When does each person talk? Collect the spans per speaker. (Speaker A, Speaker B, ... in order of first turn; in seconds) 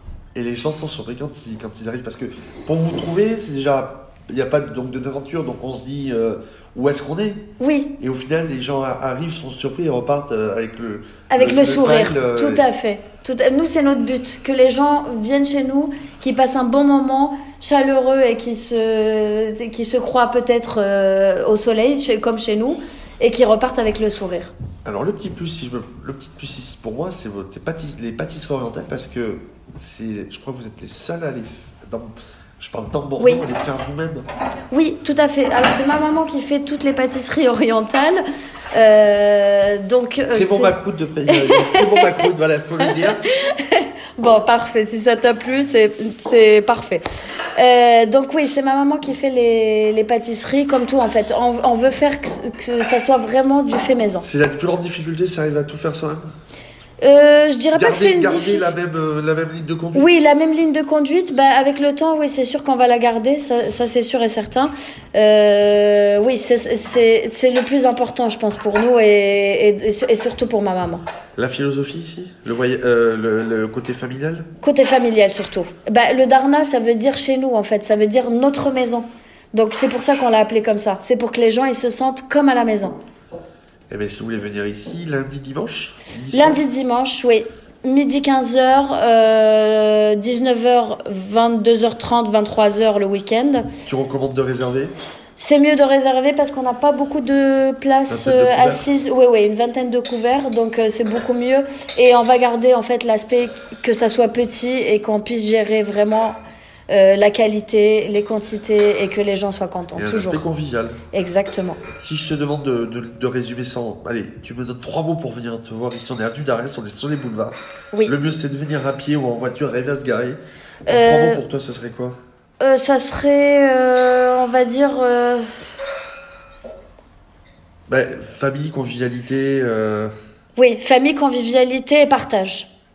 Speaker A: 0.3-7.4, 8.0-12.6, 24.9-34.2, 40.3-43.2, 54.2-56.3, 57.7-60.1, 71.4-74.5, 83.9-86.6, 93.9-94.9, 98.1-98.9, 110.0-111.0, 111.9-122.2, 127.9-130.1
Speaker B: 7.6-8.0, 11.3-24.5, 33.2-33.4, 34.7-38.2, 38.7-40.7, 41.3-42.3, 42.8-47.0, 47.6-54.3, 57.0-58.7, 59.9-71.0, 74.6-83.0, 86.3-93.7, 95.4-106.4, 106.9-110.5, 111.1-111.8, 120.9-121.4, 122.6-125.5, 130.6-132.7